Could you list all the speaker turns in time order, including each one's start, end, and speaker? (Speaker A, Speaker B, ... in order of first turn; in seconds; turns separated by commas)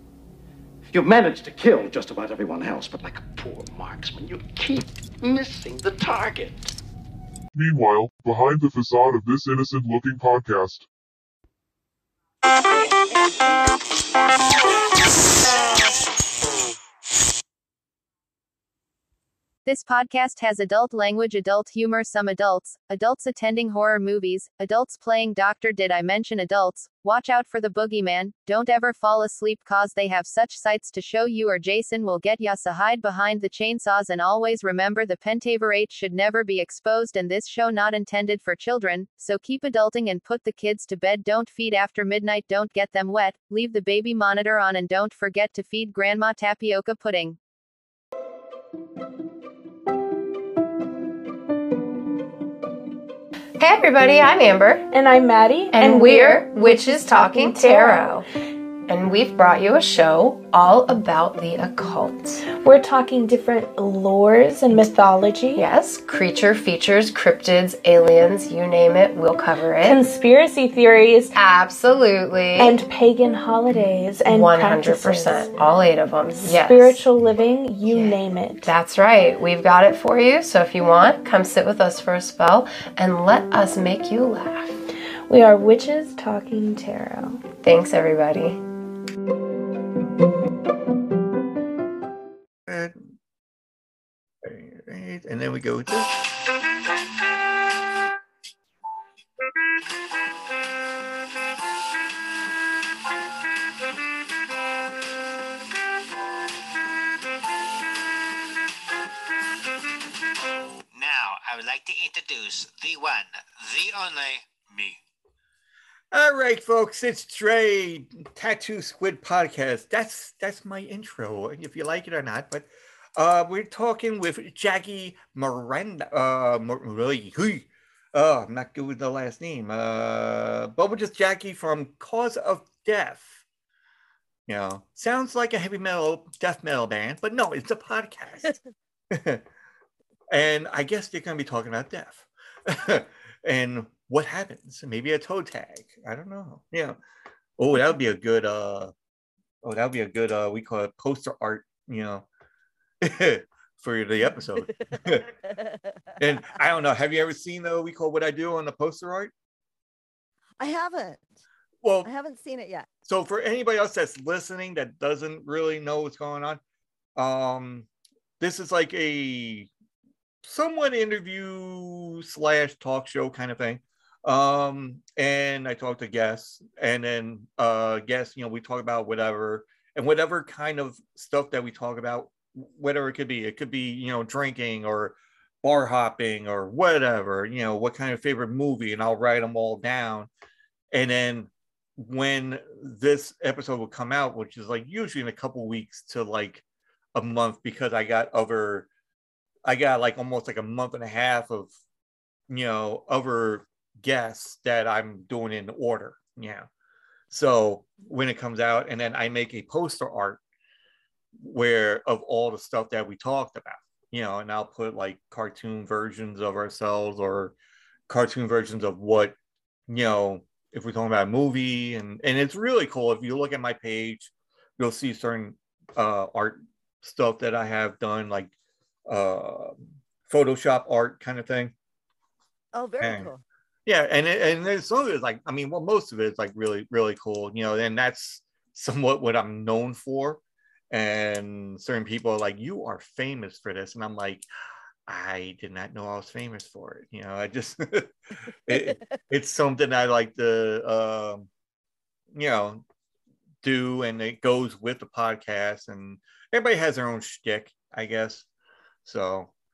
Speaker A: 0.8-6.7, Speaker B: 7.5-10.9, Speaker C: 19.6-47.4, Speaker D: 53.6-54.9, Speaker E: 54.9-58.2, Speaker D: 55.7-58.2, Speaker D: 58.9-62.4, Speaker E: 62.5-65.6, Speaker D: 65.5-70.0, Speaker E: 69.8-71.4, Speaker D: 71.3-72.8, Speaker E: 72.5-75.5, Speaker D: 74.2-77.0, Speaker E: 76.4-78.7, Speaker D: 77.8-84.8, Speaker E: 85.3-87.4, Speaker D: 87.5-88.6, Speaker F: 92.7-93.1, Speaker F: 94.4-96.2, Speaker G: 110.9-114.9, Speaker F: 116.1-133.4, Speaker F: 134.5-138.6, Speaker F: 139.1-139.4, Speaker F: 140.3-147.0, Speaker F: 147.6-148.9, Speaker F: 149.6-152.2, Speaker F: 153.0-155.3, Speaker H: 154.3-155.9, Speaker F: 156.2-159.3, Speaker H: 160.6-161.4, Speaker F: 161.8-162.1, Speaker H: 162.0-162.8, Speaker F: 163.0-166.6, Speaker F: 167.2-167.9, Speaker F: 168.4-169.7, Speaker F: 170.4-190.3, Speaker F: 190.9-196.6, Speaker F: 197.1-198.9, Speaker F: 199.6-201.7, Speaker F: 202.5-206.7, Speaker F: 207.3-210.4, Speaker F: 211.4-217.5, Speaker F: 218.1-219.3, Speaker F: 219.9-228.5, Speaker F: 229.1-231.7, Speaker H: 232.7-233.4, Speaker F: 233.0-233.3, Speaker F: 233.8-244.5, Speaker F: 245.1-248.1, Speaker F: 248.7-251.5, Speaker H: 248.7-249.2, Speaker F: 252.3-252.8, Speaker F: 253.6-258.5, Speaker F: 259.0-259.5